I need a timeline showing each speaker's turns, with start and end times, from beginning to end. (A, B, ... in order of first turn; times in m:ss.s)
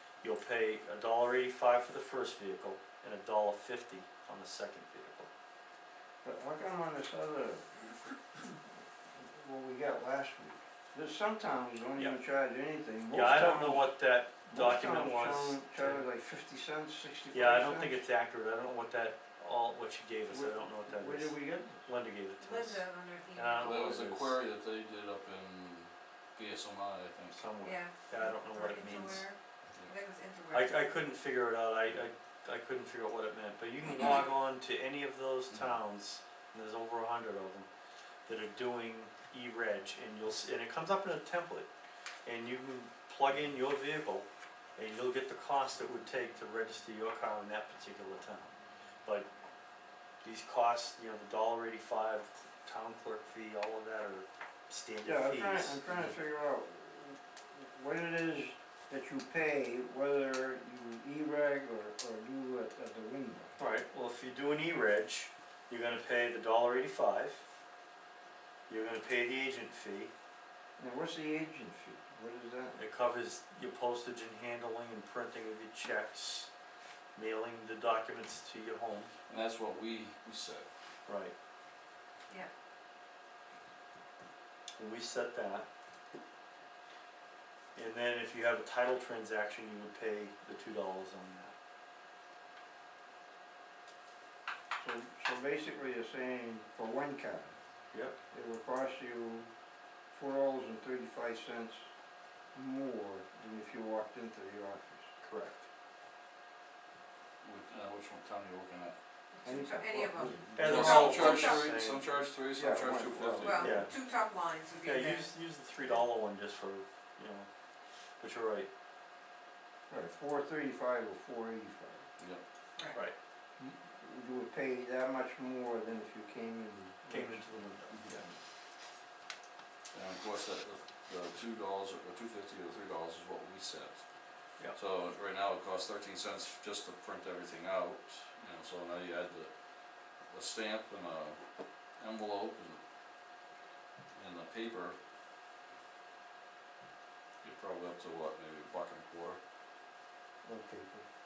0:00.2-0:05.3 A
0:06.2-0:08.0 B
0:09.1-0:14.0 B
0:13.1-0:16.0 A
0:14.5-0:18.0 B
0:17.3-0:24.4 A
0:20.3-0:21.9 B
0:22.4-0:23.8 C
0:23.6-0:27.5 D
0:27.3-0:29.2 A
0:27.6-0:30.7 C
0:30.5-0:37.7 A
0:38.3-0:41.7 A
0:42.2-0:48.5 A
0:50.2-0:56.1 A
0:55.0-1:03.6 B
1:03.6-1:07.4 A
1:08.7-1:10.1 A
1:10.8-1:12.8 B
1:12.8-1:16.5 A
1:17.2-1:19.1 A
1:19.3-1:20.7 D
1:21.1-1:21.3 A
1:24.8-1:25.7 A
1:27.8-1:31.6 A
1:34.8-1:37.6 B
1:38.3-1:39.5 B
1:40.1-1:41.9 B
1:42.5-1:45.1 B
1:45.2-1:45.6 A
1:47.4-1:49.0 D
1:49.3-1:51.7 C
1:49.4-1:50.8 B
1:50.5-1:53.7 D
1:50.6-1:52.0 A
1:52.6-1:53.9 B
1:53.4-1:55.3 C
1:53.6-1:53.9 A
1:54.8-1:57.5 A
1:58.2-1:58.7 A
1:59.9-2:02.1 B
2:03.6-2:07.7 B
2:07.1-2:08.4 A
2:07.9-2:08.2 D
2:09.9-2:21.4 D
2:22.0-2:22.8 D
2:24.1-2:25.0 D
2:27.4-2:29.4 D
2:30.4-2:31.1 B